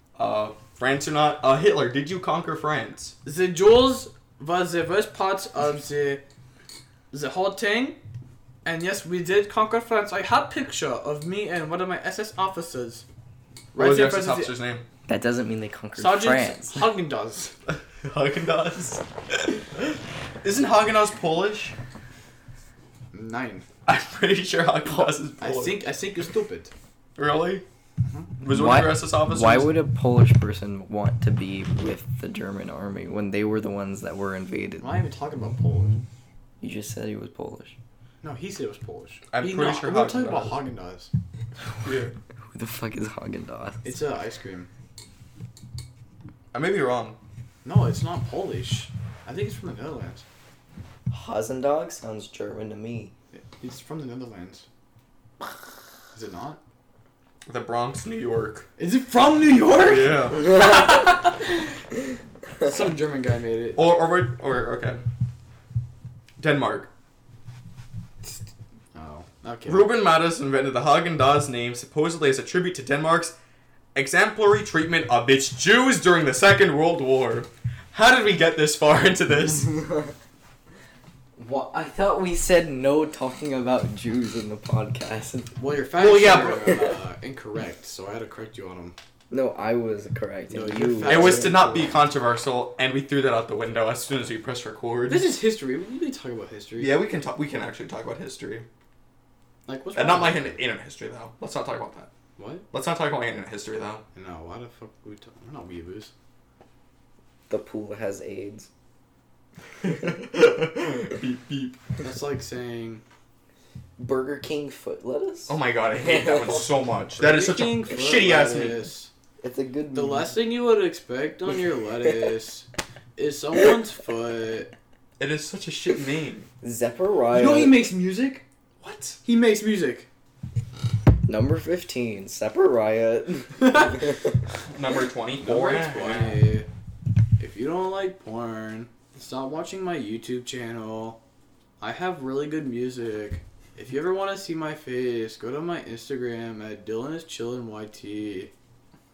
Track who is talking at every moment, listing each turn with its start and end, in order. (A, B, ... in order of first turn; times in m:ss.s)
0:00.2-0:03.1 A
0:03.2-0:06.2 B
0:07.1-0:08.0 B
0:08.6-0:13.0 B
0:13.7-0:14.5 B
0:13.7-0:14.9 A
0:15.1-0:16.8 C
0:16.0-0:17.5 B
0:18.0-0:21.8 A
0:23.1-0:23.6 B
0:23.9-0:25.9 A
0:25.4-0:26.7 B
0:27.2-0:27.6 A
0:28.1-0:28.3 B
0:28.4-0:29.7 A
0:28.5-0:34.9 C
0:34.8-0:36.0 B
0:36.6-0:37.7 C
0:38.2-0:41.1 B
0:39.3-0:40.6 A
0:41.8-0:42.1 A
0:42.5-0:44.0 C
0:43.8-0:44.7 B
0:46.5-0:47.2 A
0:47.6-0:50.2 B
0:51.1-0:53.1 C
0:53.3-0:54.6 B
0:56.1-0:56.6 B
0:57.4-0:58.7 A
0:58.8-1:01.5 B
0:59.8-1:00.4 A
1:02.6-1:03.8 B
1:03.8-1:05.0 A
1:06.4-1:06.9 A
1:08.9-1:09.9 B
1:09.6-1:13.4 A
1:13.9-1:19.8 A
1:21.4-1:25.5 C
1:25.6-1:29.0 B
1:26.0-1:26.8 A
1:29.3-1:31.6 C
1:30.5-1:32.0 B
1:31.0-1:35.3 A
1:35.1-1:37.0 B
1:36.8-1:38.7 A
1:39.6-1:40.6 B
1:39.9-1:42.1 A
1:42.4-1:42.6 B
1:42.7-1:44.0 A
1:44.1-1:46.1 B
1:47.5-1:48.7 C
1:49.8-1:51.8 A
1:52.0-1:53.0 B
1:54.0-1:56.7 C
1:55.5-1:58.9 A
1:57.2-1:59.1 B
1:59.4-2:00.3 C
1:59.9-2:04.7 B
2:05.2-2:06.5 A
2:06.6-2:07.8 C
2:07.3-2:08.4 B
2:08.8-2:09.2 A
2:09.2-2:10.1 B
2:11.2-2:14.2 C
2:14.7-2:16.4 A
2:15.4-2:16.7 B
2:17.4-2:21.2 B
2:21.8-2:28.5 B